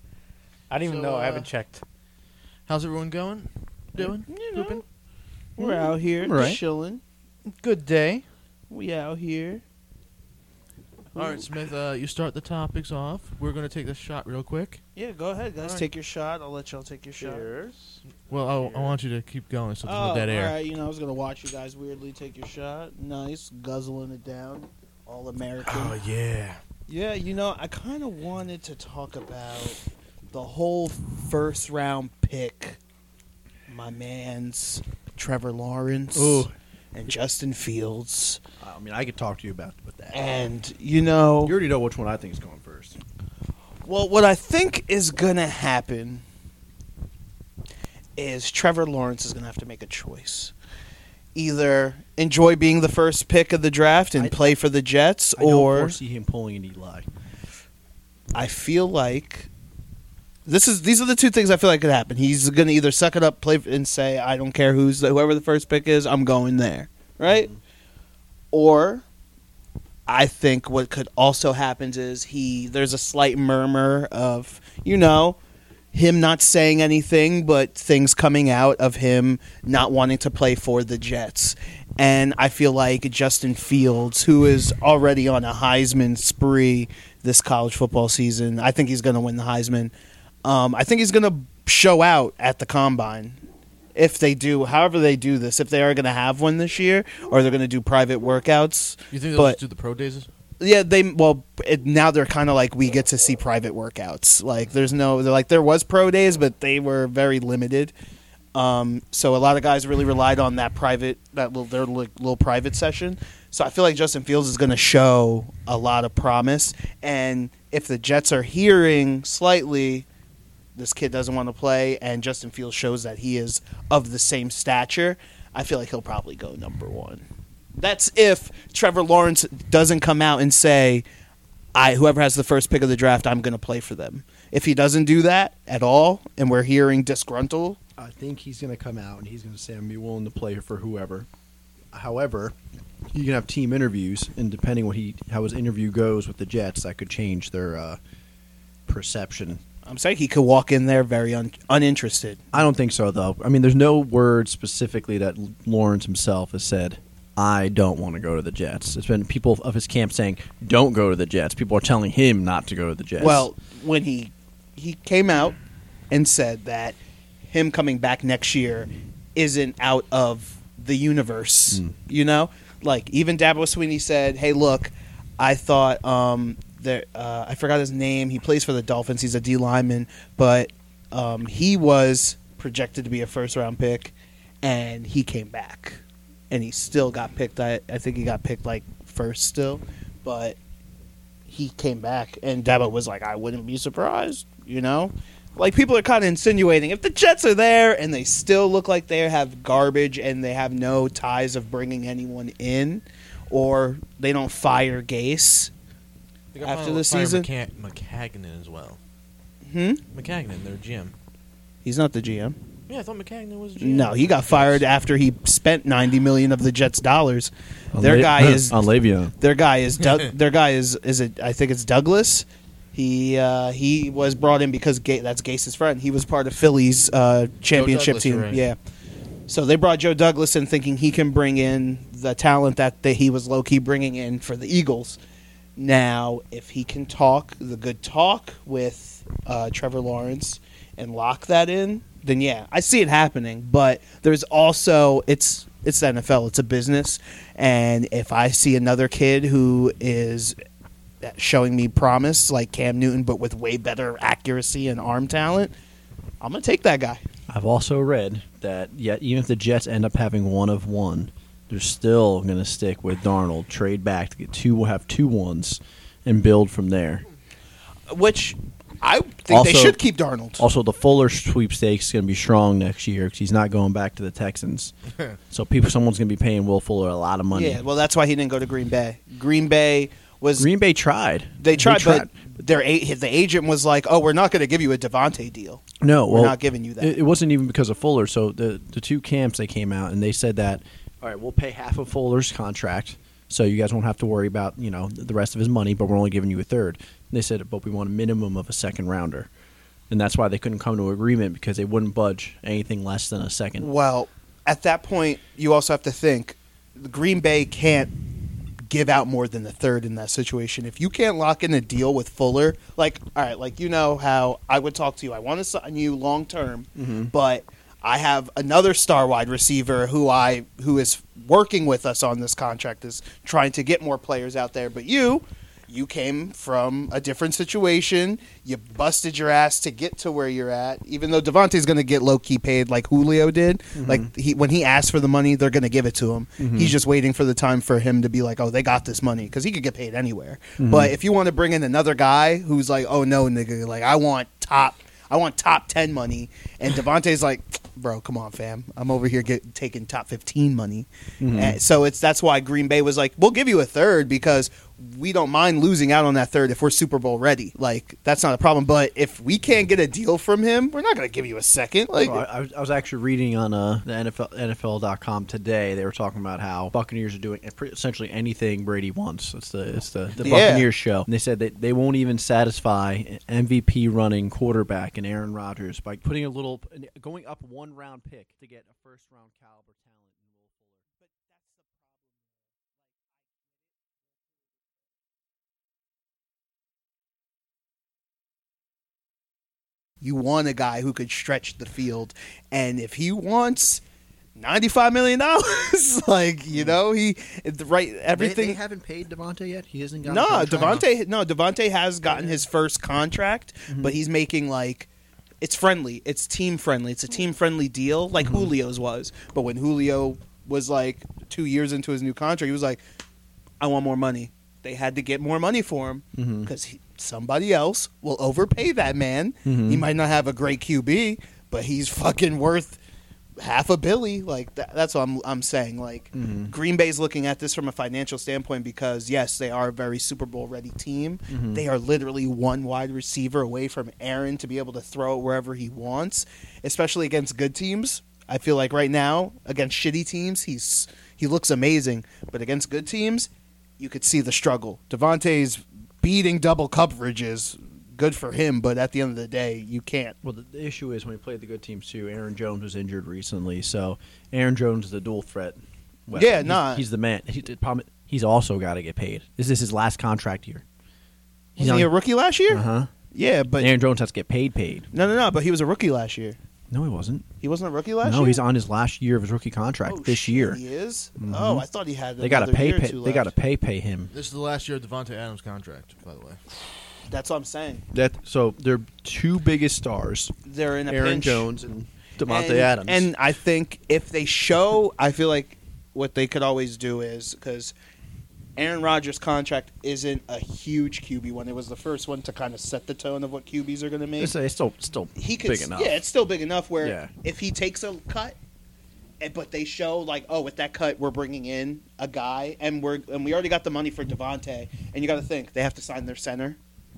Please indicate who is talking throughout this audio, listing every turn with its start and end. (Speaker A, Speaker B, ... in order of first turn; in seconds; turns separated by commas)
Speaker A: 0.7-1.8, Speaker B: 0.8-1.5, Speaker B: 2.7-4.8, Speaker C: 4.0-4.8, Speaker C: 5.6-7.0, Speaker D: 6.2-6.6, Speaker A: 7.5-8.3, Speaker C: 8.7-9.6, Speaker C: 11.1-11.4, Speaker B: 11.2-14.8, Speaker C: 15.0-17.5, Speaker B: 15.6-15.8, Speaker A: 17.2-18.0, Speaker B: 18.3-20.6, Speaker A: 18.6-19.0, Speaker C: 19.8-26.0, Speaker B: 25.7-26.6, Speaker C: 26.9-29.8, Speaker C: 30.3-32.8, Speaker C: 33.7-38.4, Speaker D: 36.1-36.5, Speaker D: 38.6-40.5, Speaker C: 40.1-41.6, Speaker D: 41.4-43.0, Speaker C: 43.8-46.2, Speaker C: 48.2-50.5, Speaker C: 51.4-56.0, Speaker D: 54.2-54.5, Speaker D: 55.4-57.1, Speaker C: 58.4-59.5, Speaker C: 60.5-67.5, Speaker D: 67.3-67.6, Speaker C: 68.5-69.0, Speaker C: 70.1-75.4, Speaker C: 75.9-89.9, Speaker C: 90.4-93.4, Speaker C: 94.0-99.6, Speaker B: 99.1-100.3, Speaker C: 100.6-107.9, Speaker C: 108.5-120.1, Speaker C: 120.8-127.2, Speaker C: 127.8-131.1, Speaker C: 131.8-137.8, Speaker D: 138.0-141.3, Speaker D: 141.9-142.6, Speaker D: 143.1-148.0, Speaker D: 148.9-149.6, Speaker C: 149.8-152.4, Speaker D: 152.5-163.5, Speaker C: 163.2-165.6, Speaker C: 166.1-167.0, Speaker C: 167.5-190.6, Speaker C: 191.5-205.7, Speaker B: 206.5-209.0, Speaker C: 206.6-207.5, Speaker C: 209.7-210.0, Speaker B: 210.1-211.1, Speaker C: 211.8-212.6, Speaker B: 212.9-214.8, Speaker C: 213.8-218.8, Speaker D: 217.9-219.3, Speaker C: 219.4-228.8, Speaker B: 220.0-220.3, Speaker B: 227.8-228.6, Speaker C: 229.5-235.2, Speaker C: 235.8-250.6, Speaker C: 251.2-255.7, Speaker C: 256.4-257.2, Speaker D: 257.5-267.2, Speaker C: 268.1-270.7, Speaker D: 269.5-270.0, Speaker D: 270.6-274.9, Speaker D: 275.5-277.8, Speaker C: 277.5-280.7, Speaker D: 280.6-282.3, Speaker C: 281.6-287.2, Speaker D: 286.0-299.5, Speaker D: 300.1-303.9, Speaker C: 303.8-308.1, Speaker C: 308.9-362.4, Speaker D: 317.0-317.3, Speaker D: 334.0-334.3, Speaker D: 336.6-337.0, Speaker D: 340.8-341.1, Speaker D: 351.4-351.8, Speaker D: 362.2-381.0, Speaker C: 370.4-370.9, Speaker C: 381.2-382.2, Speaker C: 390.2-394.0, Speaker C: 394.6-398.8, Speaker D: 398.4-401.0, Speaker C: 400.2-405.1, Speaker B: 400.7-401.0, Speaker D: 403.9-404.2, Speaker C: 405.6-413.0, Speaker D: 408.4-408.7, Speaker C: 413.8-423.0, Speaker D: 416.4-416.7, Speaker D: 419.7-420.1, Speaker C: 423.6-450.4, Speaker D: 426.3-426.7, Speaker D: 431.5-431.8, Speaker D: 450.4-460.8, Speaker C: 456.3-457.0, Speaker D: 461.8-462.1, Speaker C: 461.8-463.9, Speaker D: 462.7-463.1, Speaker D: 463.8-465.1, Speaker C: 465.1-466.6, Speaker D: 466.9-467.5, Speaker C: 467.6-468.6, Speaker D: 468.2-470.8, Speaker C: 470.0-473.5, Speaker D: 471.4-471.9, Speaker D: 472.4-474.3, Speaker B: 474.3-476.6, Speaker C: 477.3-478.0, Speaker D: 478.1-480.5, Speaker C: 480.6-481.7, Speaker D: 481.1-483.3, Speaker C: 482.4-487.9, Speaker C: 488.8-494.5, Speaker D: 494.4-496.2, Speaker C: 495.4-498.6, Speaker D: 497.0-497.3, Speaker C: 499.4-506.8